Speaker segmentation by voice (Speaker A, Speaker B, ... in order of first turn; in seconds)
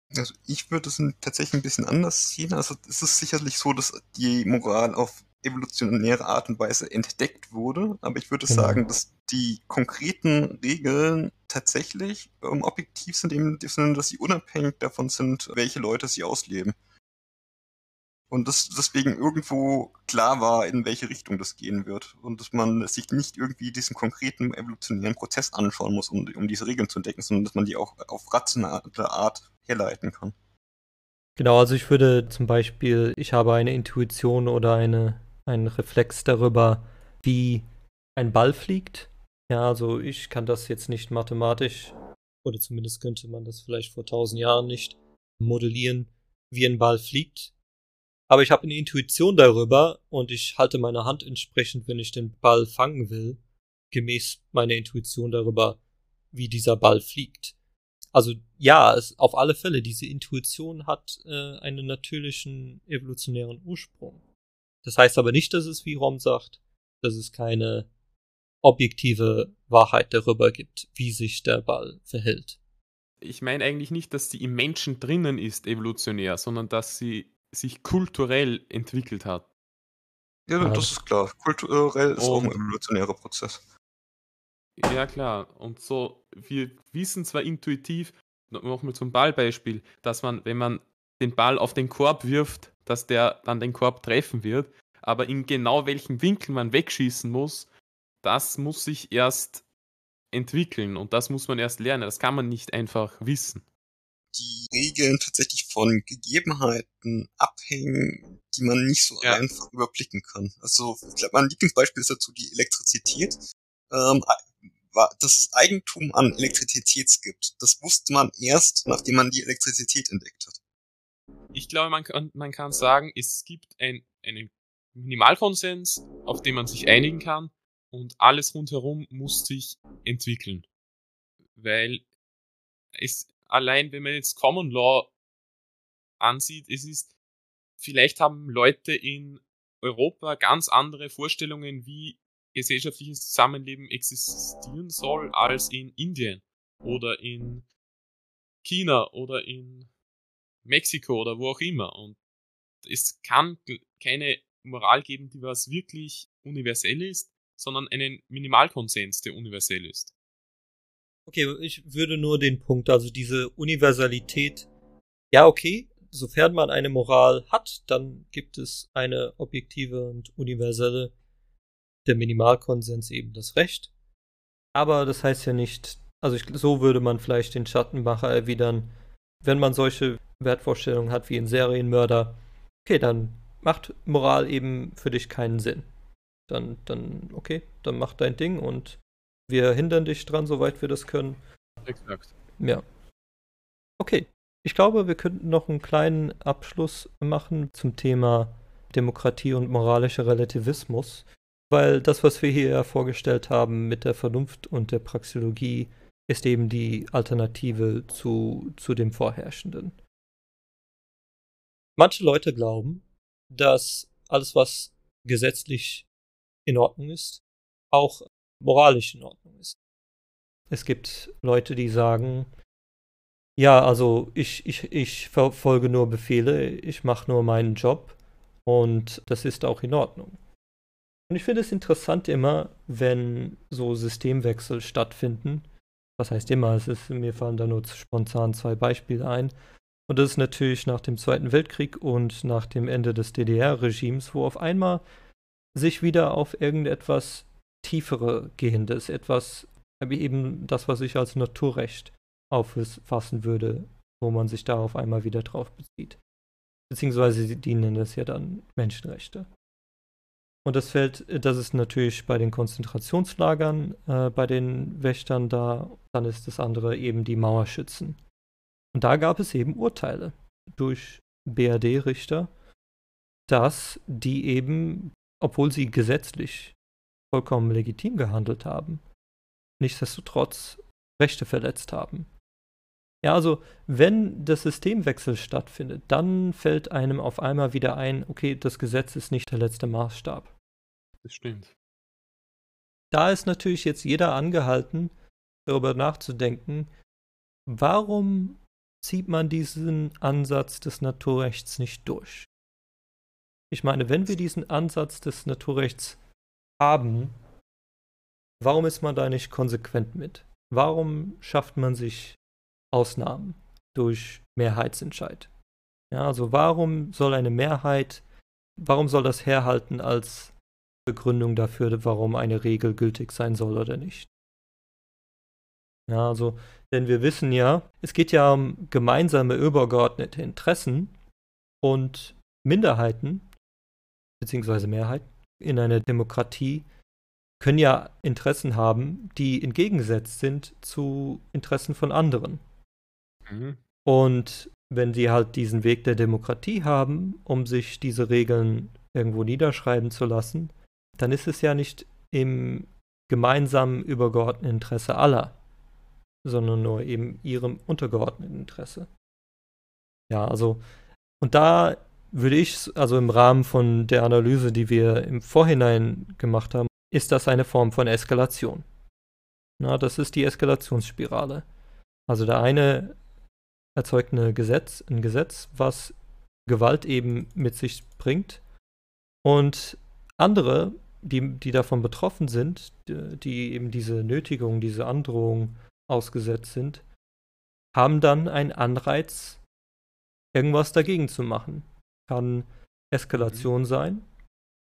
Speaker A: 0.1-16.8, 18.3-30.4, 80.5-83.6, 104.3-120.6
Speaker B: 8.5-8.8, 31.4-47.5, 48.3-53.4, 53.9-55.8, 56.3-57.5, 58.1-64.2, 64.8-67.9, 68.6-72.6, 80.6-81.0, 161.3-164.7, 165.3-171.1, 172.1-173.9, 174.8-178.9, 179.4-185.9, 186.5-191.4, 194.0-210.0, 212.0-216.1, 216.7-217.4, 217.9-219.8, 220.7-222.5, 223.6-230.4, 231.3-235.7, 236.2-239.5, 240.1-245.0, 245.8-256.2, 256.9-259.5, 260.6-268.2, 268.9-272.5, 273.5-276.8, 277.3-279.0, 279.8-282.3, 283.2-290.5, 293.1-295.1, 295.7-296.9, 297.7-302.5, 303.7-306.2, 306.8-307.3, 308.6-312.4, 312.9-315.5, 316.1-318.2, 318.8-320.5, 321.1-324.3, 326.1-331.1, 331.8-333.5, 334.4-336.9, 337.6-342.6, 344.1-355.6, 356.4-359.1, 360.3-360.8, 361.4-368.9, 369.8-371.6, 372.3-373.2, 374.0-376.1, 376.7-378.6, 379.4-387.0, 387.9-389.6, 390.6-394.2
Speaker C: 73.2-79.5, 82.2-82.6, 84.8-97.7, 98.2-99.6, 100.3-103.7, 121.5-130.7, 131.6-132.0, 132.9-135.1, 136.2-137.1, 137.8-147.7, 148.6-149.9, 150.7-152.2, 152.8-160.1, 191.8-192.3, 291.2-291.7, 343.5-343.8, 393.3-393.7